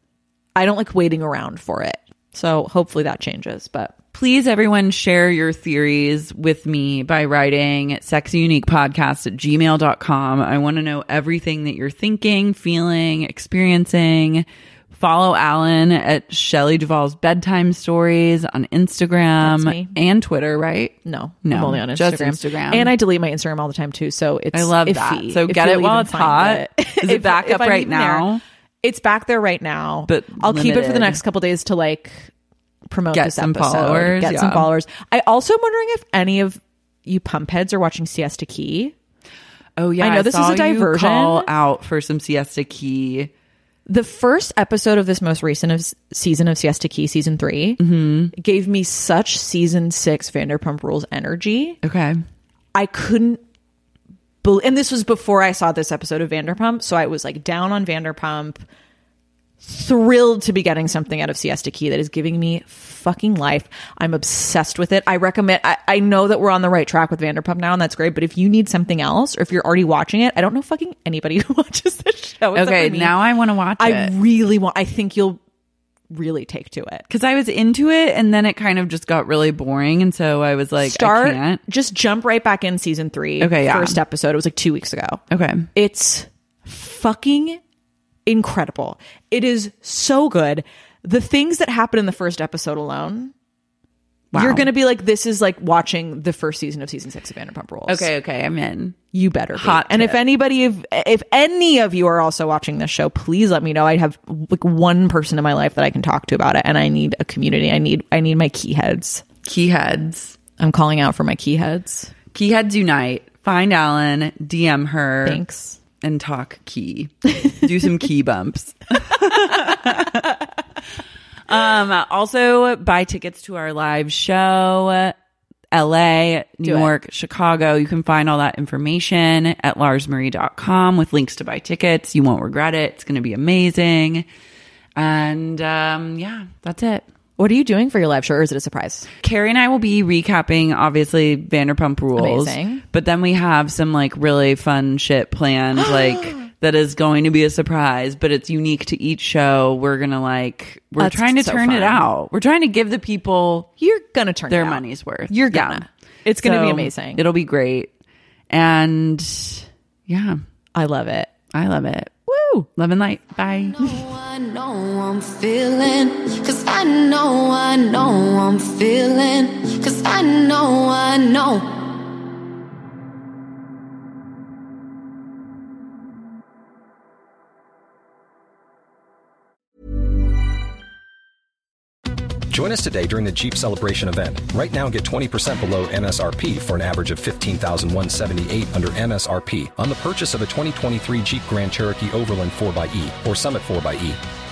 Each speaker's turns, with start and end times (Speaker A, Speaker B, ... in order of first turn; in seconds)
Speaker A: 0.6-3.9, 19.4-19.9, 21.0-28.3, 28.8-32.3, 32.9-38.9, 40.0-41.5, 43.9-47.8, 48.3-51.8, 52.7-53.4, 54.4-58.6, 59.6-73.2, 73.8-75.4, 76.1-77.0, 80.8-85.2, 85.7-87.6, 88.2-93.3, 94.3-98.1, 99.1-109.2, 110.6-112.1, 115.2-115.8, 126.6-126.9, 137.4-139.1, 142.2-142.8, 145.8-146.4, 151.0-152.1, 153.8-157.2, 160.7-161.3, 162.3-162.7
Speaker B: 4.1-22.9, 24.5-28.4, 30.1-31.2, 33.1-34.7, 39.8-43.3, 47.8-48.3, 51.8-52.2, 72.5-74.1, 77.1-81.6, 83.4-84.0, 85.3-85.7, 94.3-94.7, 97.9-99.0, 99.5-100.2, 109.4-110.3, 112.3-115.4, 116.0-120.4, 121.5-125.1, 125.7-134.2, 134.9-137.0, 139.2-153.7, 154.5-157.9, 158.5-160.4, 161.5-162.2, 162.8-163.8
Speaker C: 163.7-171.8
Speaker D: 182.5-194.2